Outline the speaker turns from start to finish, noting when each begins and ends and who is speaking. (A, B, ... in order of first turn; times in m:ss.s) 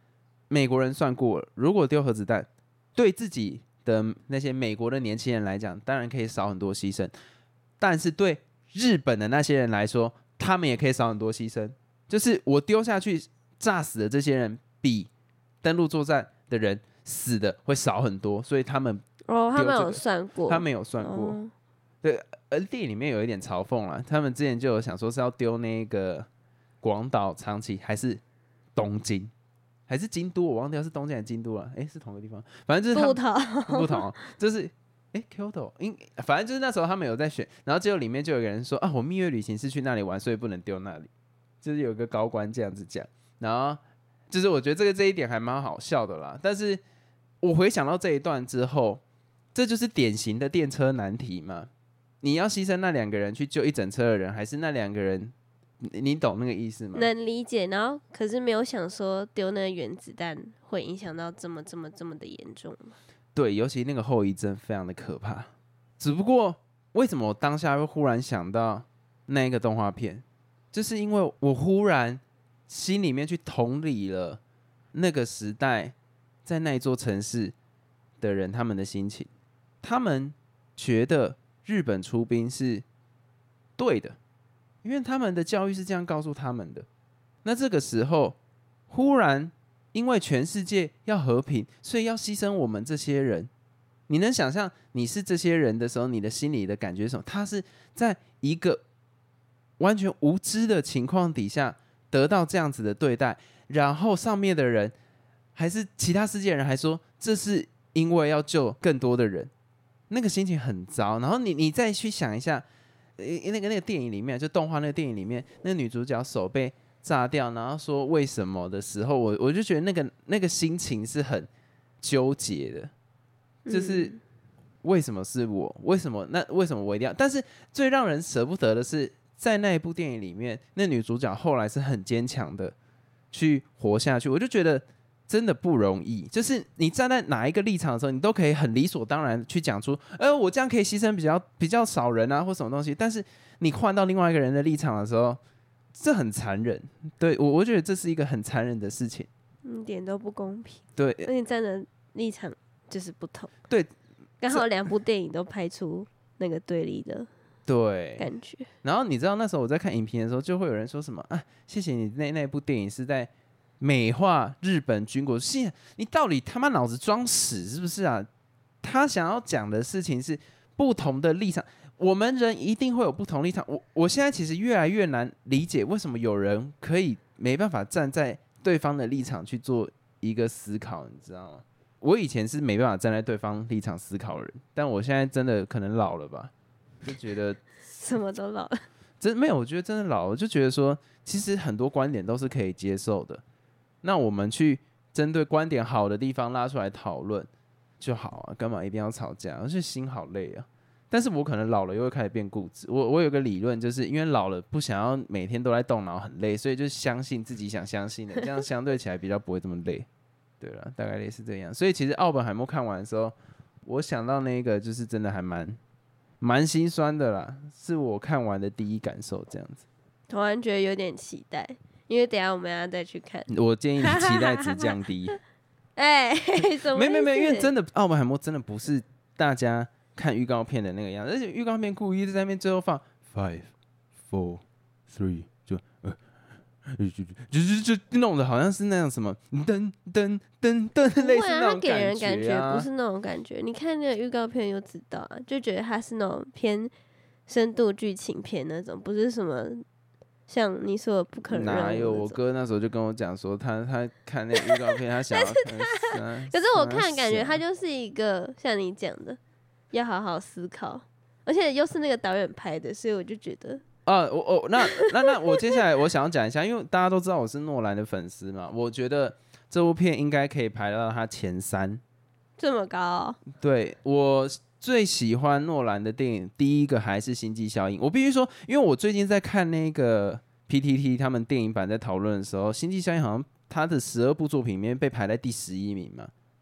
0:00.5-0:07.1 A
0:07.8-0:15.1 A
0:15.6-0:19.0 A
0:19.3-0:21.5 B
0:19.5-0:21.4 A
0:22.0-0:26.3 A
0:26.8-0:28.2 A
0:28.8-0:29.3 A
0:29.9-0:41.1 A
0:32.9-0:34.0 B
0:41.6-0:46.8 A
0:47.4-0:49.0 A
0:49.5-0:51.7 A
0:52.2-0:57.1 A
0:56.9-1:03.0 B
1:03.3-1:14.4 A
1:14.9-1:15.9 A
1:16.4-1:17.5 A
1:18.2-1:19.3 A
1:19.8-1:22.8 A
1:23.8-1:24.2 A
1:24.8-1:26.9 A
1:27.4-1:28.4 A
1:28.9-1:33.5 A
1:34.1-1:38.8 A
1:39.8-1:44.9 A
1:45.5-1:49.5 A
1:50.1-1:52.6 A
1:53.2-2:01.5 A
2:02.0-2:02.9 A
2:03.6-2:04.2 B
2:03.7-2:04.1 A
2:04.8-2:12.7 A
2:13.3-2:25.4 A
2:25.9-2:29.3 A
2:29.6-2:33.5 B
2:31.0-2:31.3 A
2:34.4-2:37.3 B
2:37.7-2:38.2 A
2:38.2-2:38.7 B
2:38.8-2:48.3 A
2:48.8-3:06.5 A
3:07.0-3:07.6 A
3:07.9-3:08.8 B
3:09.2-3:13.4 A
3:14.0-3:17.5 A
3:18.0-3:30.1 A
3:30.6-3:35.8 A
3:36.4-3:39.8 A
3:40.3-3:43.5 B
3:43.5-3:45.4 A
3:44.0-3:44.8 B
3:46.0-3:47.7 B
3:46.9-3:53.7 A
3:54.2-3:56.2 A
3:56.9-4:02.9 A
4:01.2-4:06.9 B
4:07.5-4:09.8 B
4:10.5-4:12.4 B
4:11.5-4:17.6 A
4:15.3-4:19.4 B
4:19.9-4:23.8 B
4:24.0-4:32.0 A
4:32.6-4:33.4 B
4:33.5-4:46.3 A